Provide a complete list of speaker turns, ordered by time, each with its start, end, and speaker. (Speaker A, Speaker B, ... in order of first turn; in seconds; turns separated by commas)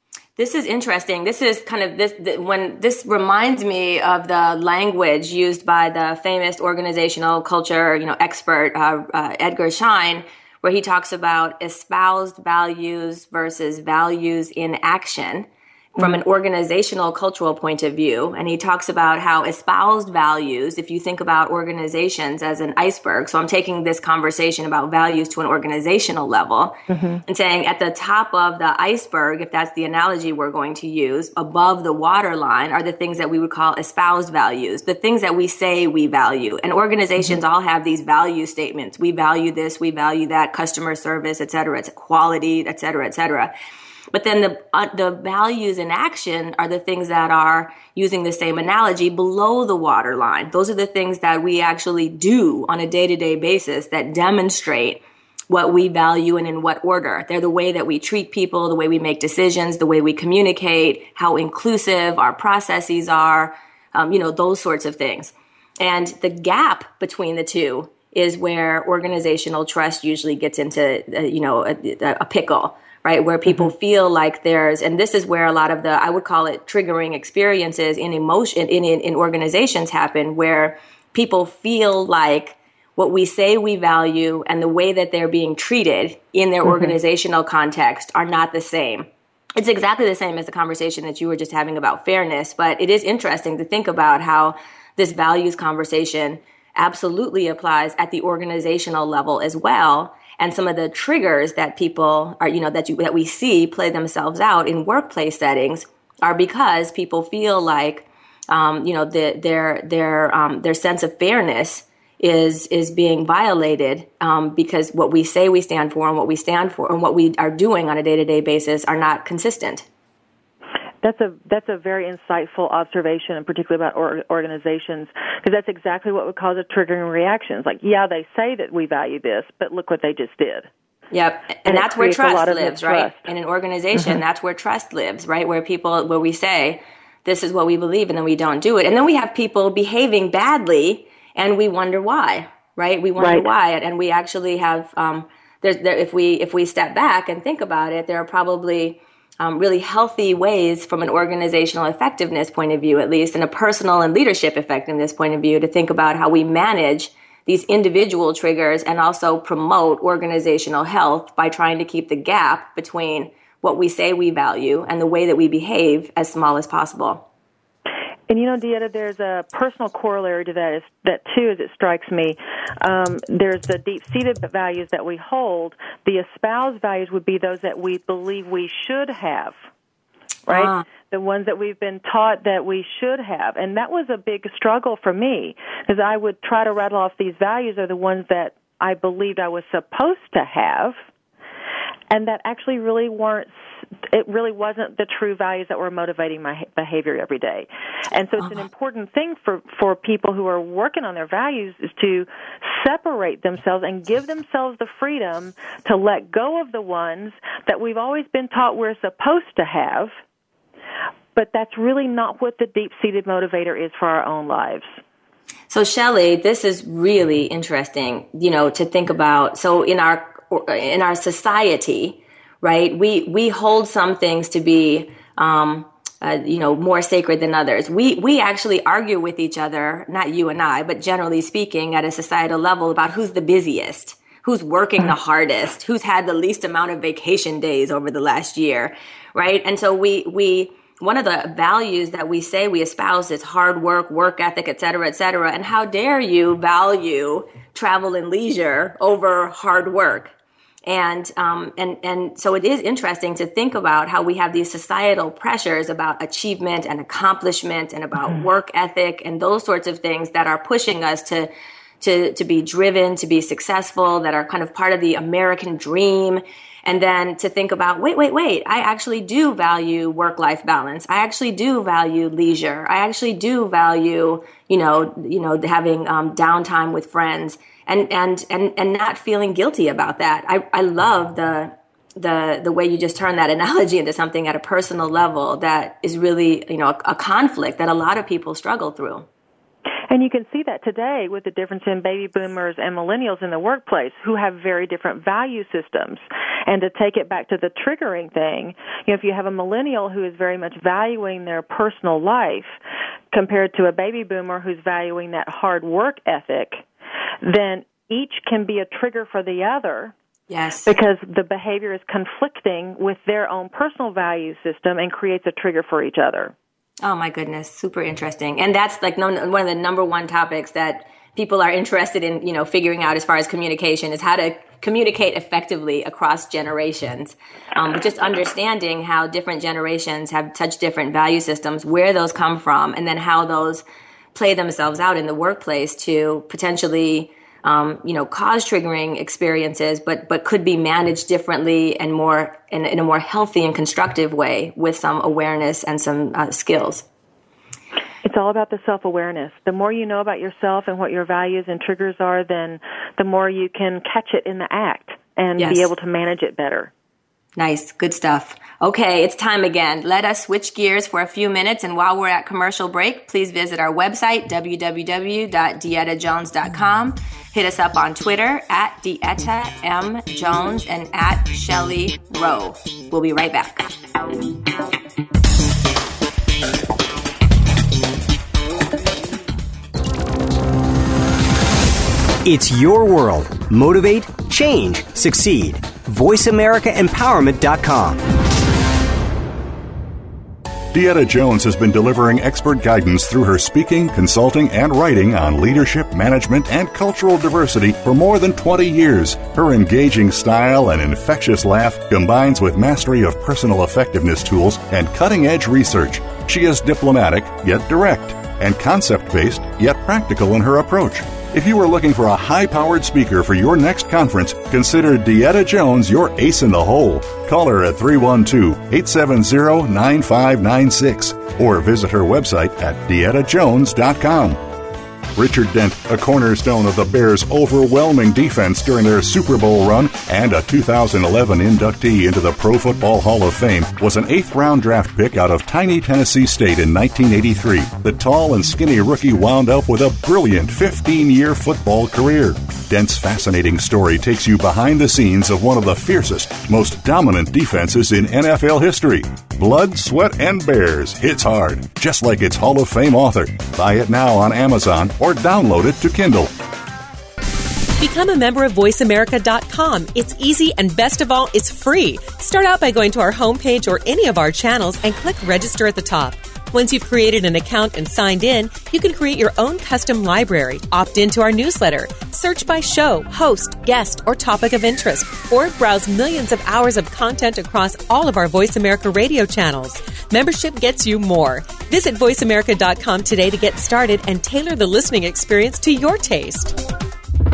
Speaker A: 0.4-43.5, Speaker B: 26.9-27.2, Speaker A: 44.1-119.8, Speaker B: 121.0-130.7, Speaker A: 131.1-167.3, Speaker B: 131.7-133.3, Speaker B: 143.2-143.4, Speaker B: 168.3-179.6, Speaker B: 180.5-191.0, Speaker A: 180.5-180.9, Speaker B: 192.1-193.5, Speaker B: 194.0-210.1, Speaker B: 211.3-214.9, Speaker A: 215.7-250.3, Speaker A: 250.9-289.3, Speaker B: 290.1-302.7, Speaker B: 303.3-306.8, Speaker B: 307.4-310.1, Speaker A: 310.5-310.9, Speaker B: 310.9-316.5, Speaker A: 317.0-347.1, Speaker B: 348.2-356.9, Speaker A: 355.6-355.9, Speaker A: 357.6-373.9, Speaker C: 382.4-388.2, Speaker D: 390.9-424.6, Speaker D: 425.4-456.5, Speaker E: 458.0-486.8